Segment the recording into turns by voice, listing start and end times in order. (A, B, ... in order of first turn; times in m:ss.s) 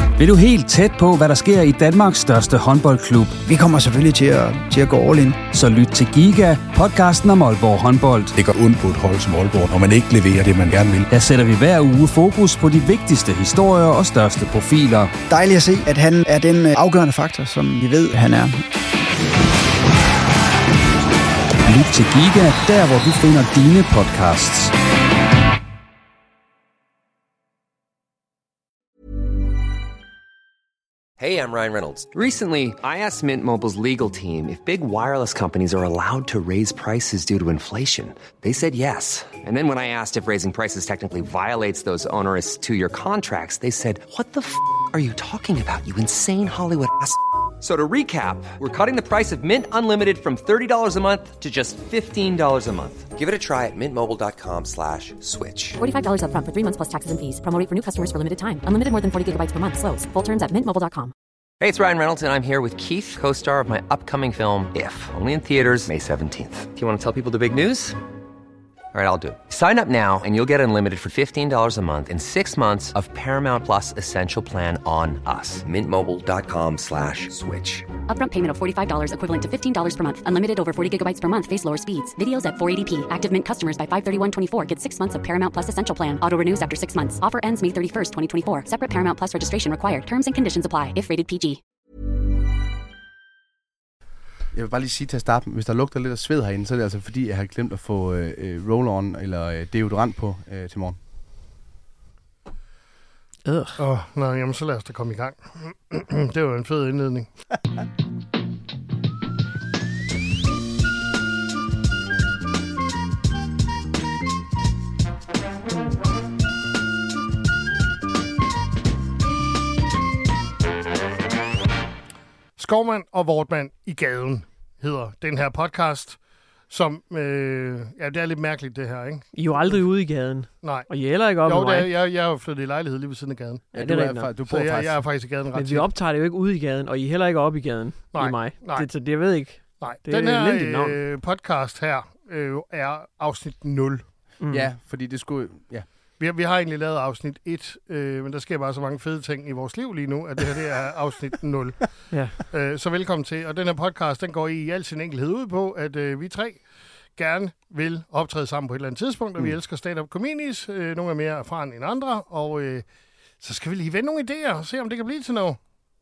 0:00.2-0:03.4 A
0:03.4-0:05.4 B
0:05.4-0:08.3 A
0:08.3-0:11.1 C
0:11.1-0:15.1 A
0:15.3-0:18.6 B
0:21.6-0:24.7 A
0:31.2-0:55.8 D
0:55.8-1:01.1 E
1:01.6-1:08.0 D
1:08.9-1:17.9 D
1:18.1-1:31.6 E
1:34.5-1:41.0 F
1:43.4-1:43.8 G
1:43.8-1:47.3 H
2:02.6-2:06.2 H
2:06.7-2:09.8 H
2:09.3-2:11.9 G
2:10.6-2:10.9 H
2:11.4-2:13.7 H
2:13.7-2:15.1 F
2:13.7-2:14.3 G
2:14.5-2:15.9 H
2:15.5-2:21.0 G
2:18.1-2:18.9 H
2:19.8-2:24.0 H
2:24.4-2:24.7 G
2:24.5-2:25.8 F
2:26.2-2:36.6 H
2:32.1-2:32.4 G
2:37.2-2:42.8 H
2:43.4-2:45.6 H